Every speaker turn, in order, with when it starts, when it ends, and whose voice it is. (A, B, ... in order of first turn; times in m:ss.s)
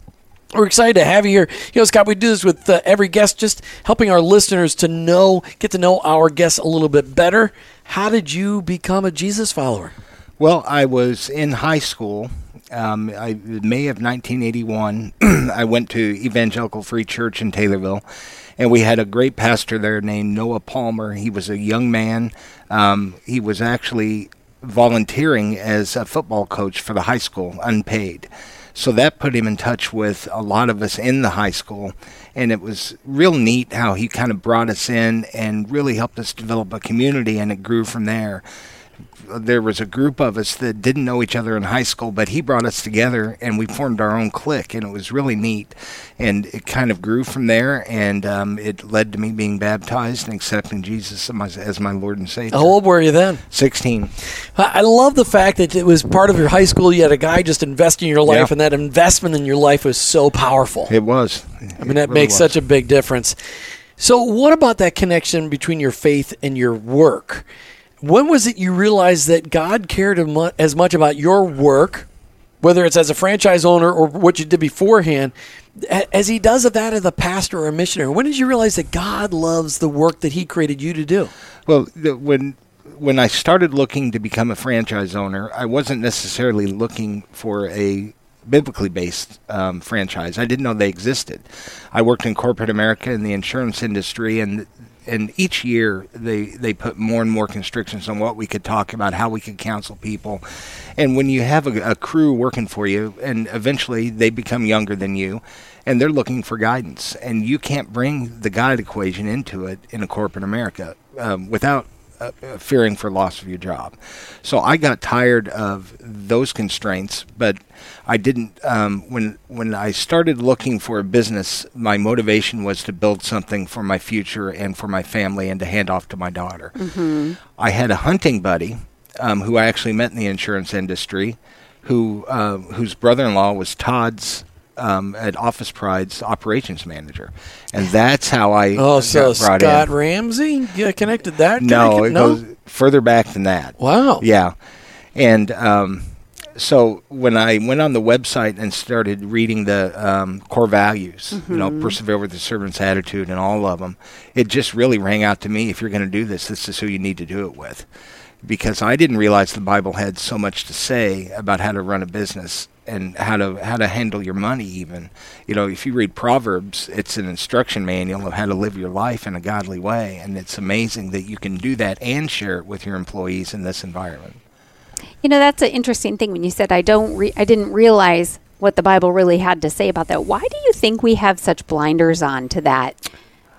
0:00.5-0:09.9 A
0:10.4-0:18.0 B
0:18.6-0:38.4 B
0:39.2-0:52.8 B
0:52.5-0:53.4 A
0:53.5-0:54.1 B
0:54.4-1:00.9 A
1:00.9-1:02.5 B
1:01.8-1:03.4 A
1:04.0-1:07.4 A
1:08.0-1:12.1 A
1:12.6-1:21.3 A
1:21.7-1:40.4 B
1:41.0-2:06.8 B
2:06.8-2:07.4 C
2:07.5-2:19.9 B
2:18.8-2:22.4 A
2:21.6-2:24.5 B
2:23.8-2:24.2 A
2:25.2-2:37.9 B
2:31.3-2:32.0 C
2:38.4-2:54.4 B
2:55.2-3:03.0 C